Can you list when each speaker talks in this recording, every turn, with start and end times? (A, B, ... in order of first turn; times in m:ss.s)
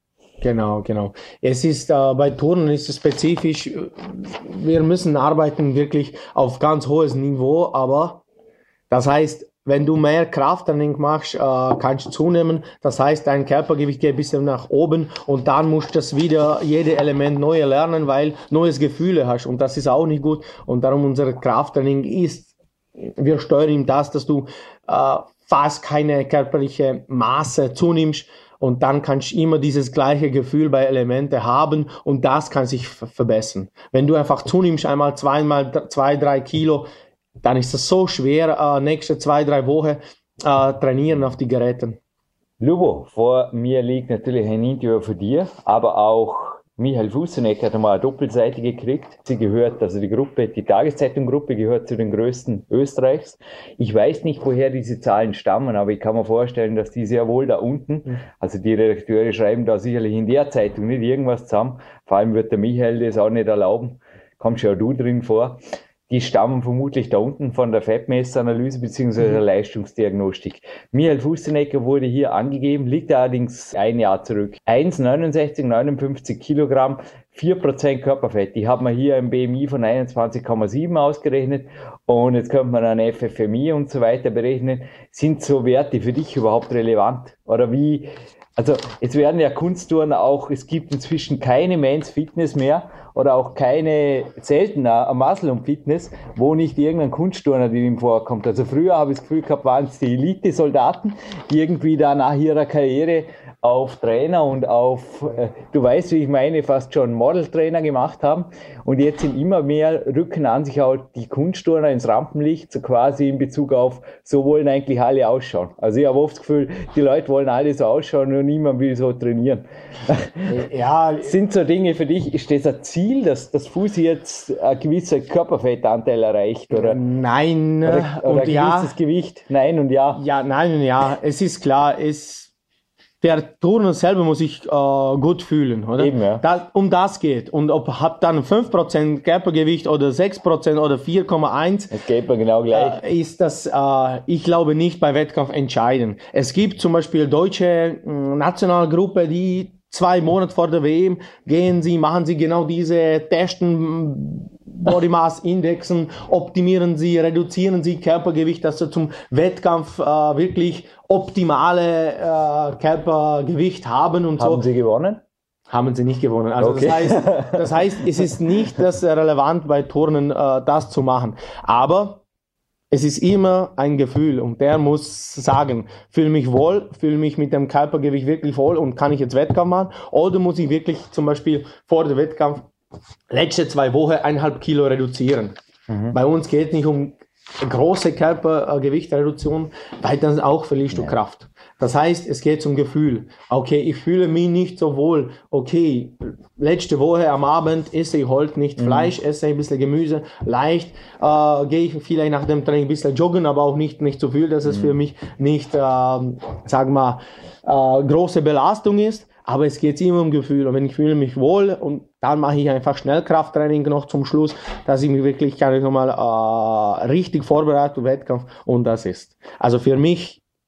0:00.4-0:08.2 A
0:08.9-0:36.9 A
0:37.4-0:42.0 A
0:42.6-2:00.5 B
2:00.5-2:01.4 A
2:01.2-2:07.0 B
2:06.7-2:08.9 A
2:07.8-2:10.2 B
2:10.1-2:12.5 A
2:13.2-2:21.9 A
2:16.0-2:16.4 B
2:21.9-2:23.0 B
2:22.7-2:44.6 A
2:44.4-2:45.2 B
2:45.7-2:52.2 A
2:46.6-2:47.7 B
2:52.9-3:02.7 A
3:03.3-3:05.6 A
3:05.9-3:06.2 B
3:06.1-3:40.4 A
3:18.8-3:19.1 B